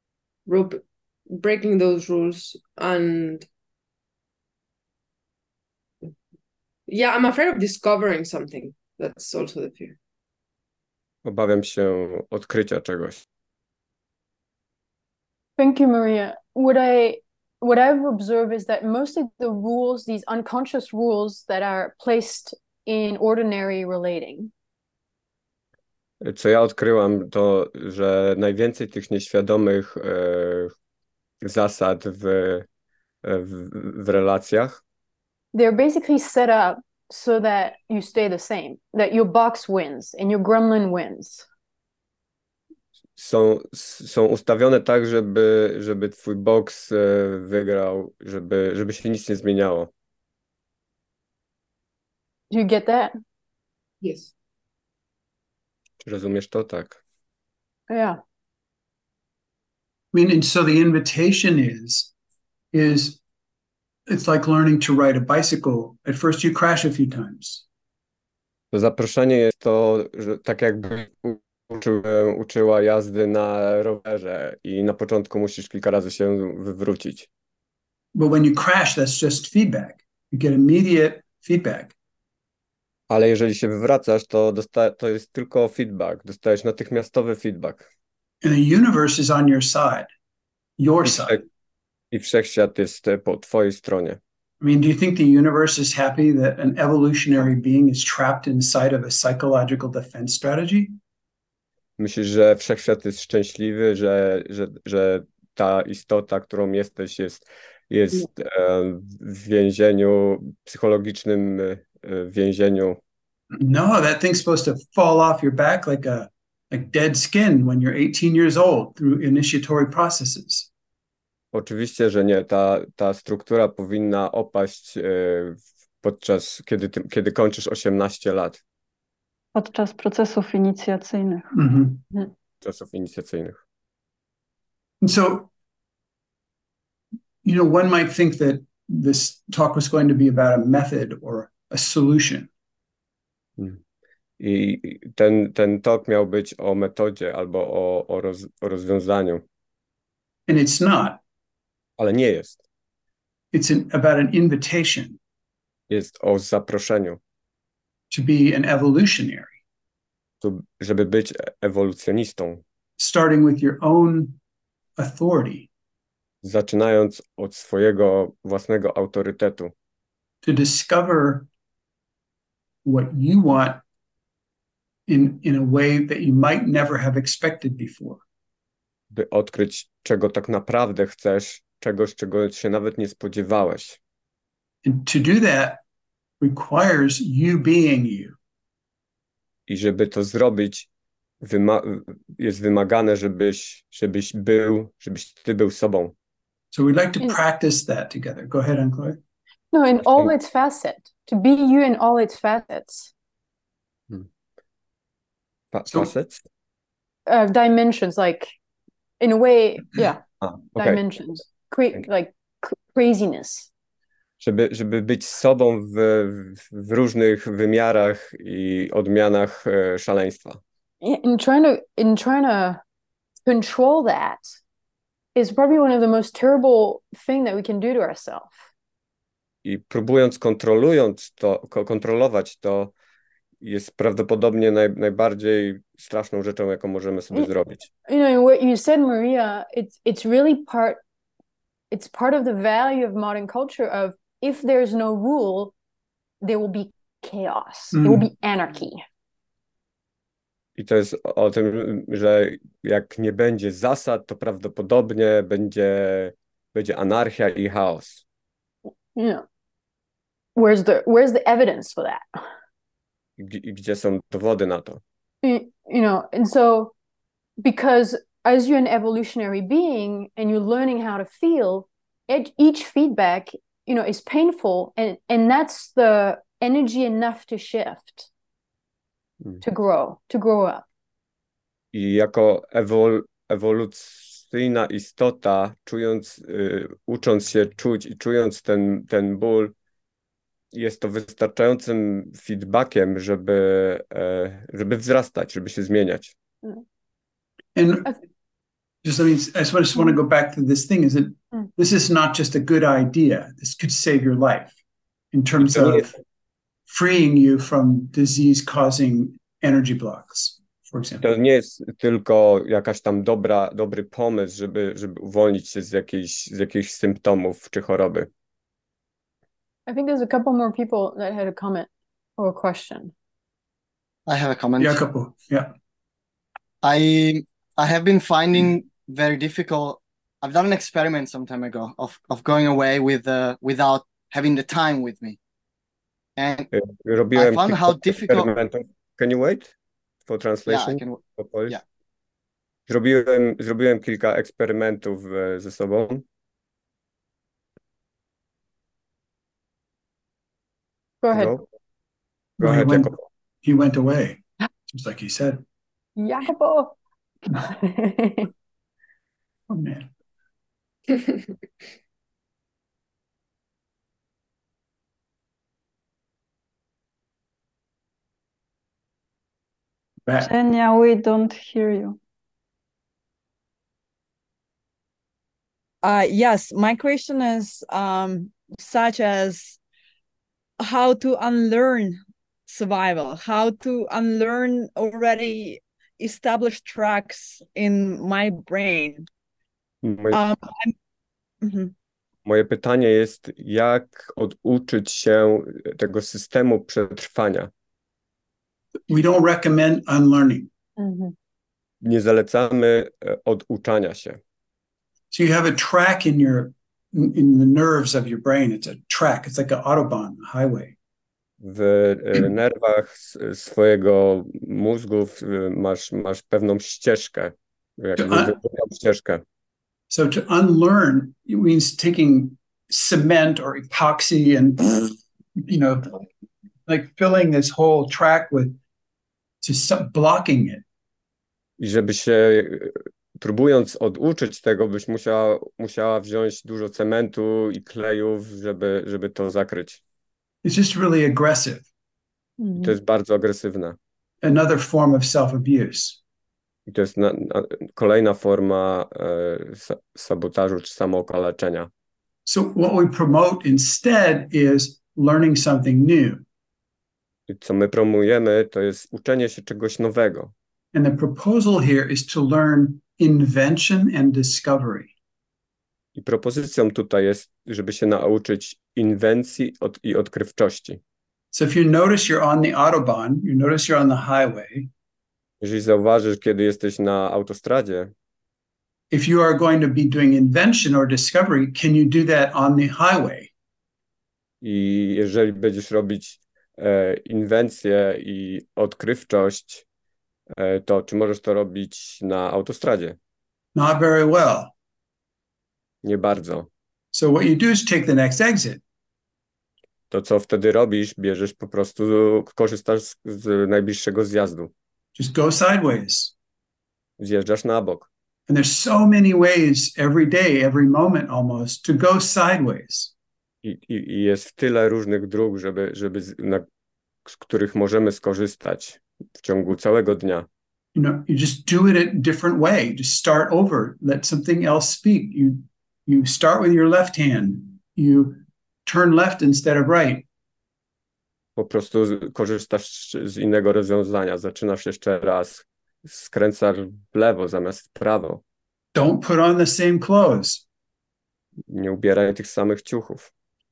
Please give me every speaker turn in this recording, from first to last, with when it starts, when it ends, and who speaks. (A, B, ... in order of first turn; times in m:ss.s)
0:00.4-0:03.5 A
0:06.9-0:10.0 A
0:11.2-0:13.2 B
0:15.6-0:24.5 C
0:26.2-0:30.7 B
0:31.4-0:32.6 B
0:33.2-0:34.8 B
0:35.5-0:41.5 C
0:43.2-0:49.9 B
0:52.5-0:53.2 C
0:54.0-0:54.3 A
0:56.0-0:57.0 B
0:57.9-0:58.2 C
1:00.1-1:02.1 D
1:02.7-1:03.2 D
1:04.1-1:07.6 D
1:08.7-1:17.3 B
1:18.1-1:21.9 D
1:23.1-1:27.9 B
1:28.4-1:30.1 D
1:30.8-1:31.4 D
1:31.0-1:31.4 B
1:32.1-1:34.2 B
1:34.6-1:41.0 D
1:42.0-1:53.0 B
1:53.5-2:00.7 D
2:01.5-2:08.6 B
2:09.5-2:11.5 E
2:11.5-2:12.0 D
2:12.6-2:13.6 B
2:15.0-2:15.5 D
2:17.4-2:22.5 D
2:24.4-2:29.4 B
2:30.5-2:31.2 D
2:32.0-2:32.6 B
2:33.5-2:35.2 D
2:35.9-2:37.2 B
2:38.1-2:39.6 D
2:40.4-2:42.6 B
2:43.0-2:44.4 D
2:45.0-2:45.7 D
2:46.4-2:49.7 B
2:50.4-2:51.5 D
2:52.8-2:53.8 D
2:55.1-2:58.2 D
2:59.1-3:04.0 B
3:04.8-3:05.8 D
3:06.4-3:08.4 D
3:09.7-3:10.9 B
3:11.4-3:16.1 B
3:16.7-3:19.2 D
3:19.7-3:23.1 C
3:25.7-3:26.4 B
3:27.3-3:28.5 C
3:29.2-3:30.2 C
3:30.4-3:31.0 B
3:30.8-3:33.7 C
3:34.4-3:40.6 B
3:41.0-3:42.8 C
3:43.4-3:44.4 C
3:45.3-3:48.6 C
3:49.6-3:52.9 B
3:53.6-3:57.9 B
3:58.1-4:01.0 C
4:01.9-4:05.7 C
4:06.4-4:09.0 C
4:07.9-4:08.3 D
4:10.8-4:18.2 B
4:19.1-4:19.4 C
4:20.6-4:22.4 C
4:23.4-4:25.0 B
4:25.4-4:26.9 C
4:27.6-4:38.3 C
4:39.6-4:40.8 C
4:41.9-4:49.7 B
4:50.7-4:56.3 B
4:57.7-4:58.1 D
4:59.0-5:04.7 D
5:05.3-5:06.1 D
5:05.6-5:06.0 B
5:06.9-5:11.2 D
5:11.2-5:18.3 B
5:19.9-5:23.1 C
5:24.3-5:25.0 F
5:24.8-5:25.7 D
5:26.8-5:35.4 F
5:36.4-5:36.7 F
5:36.7-5:39.7 B
5:37.3-5:38.5 F
5:40.3-5:41.8 B
5:40.7-5:41.8 F
5:42.9-5:46.2 B
5:51.2-5:51.5 C
5:51.3-5:51.6 B
5:52.6-5:55.6 D
5:52.6-5:53.2 B
5:56.2-5:58.5 C
5:59.7-6:00.1 D
6:10.2-6:10.5 D
6:10.4-6:12.2 E
6:16.0-6:19.8 G
6:20.8-6:29.3 G
6:30.0-6:30.4 B
6:30.3-6:30.9 G
6:31.6-6:31.9 G
6:32.4-6:37.7 B
6:39.1-6:40.7 D
6:41.0-6:41.3 C
6:42.0-6:44.4 B
6:45.3-6:51.0 D
6:51.6-6:59.4 B
6:58.2-6:58.5 D
7:00.1-7:06.2 D
7:06.8-7:08.8 D
7:09.6-7:10.8 D
7:11.8-7:20.0 B
7:20.6-7:21.8 D
7:22.6-7:22.9 C
7:22.8-7:24.0 B
7:24.4-7:26.2 D
7:26.9-7:31.9 B
7:32.4-7:36.4 D
7:37.5-7:40.5 B
7:40.9-7:45.1 D
7:46.2-7:51.0 B
7:51.5-7:54.9 D
7:55.6-7:58.1 B
7:59.1-8:03.5 D
8:04.6-8:09.8 B
8:10.5-8:13.2 B
8:13.7-8:14.7 D
8:16.0-8:16.7 B
8:17.1-8:18.8 D
8:20.1-8:24.7 B
8:25.2-8:26.3 D
8:27.2-8:28.1 B
8:28.5-8:33.1 D
8:33.6-8:36.6 B
8:37.2-8:40.5 B
8:40.9-8:50.2 D
8:51.6-8:58.4 B
8:58.9-9:00.6 D
9:01.7-9:03.3 B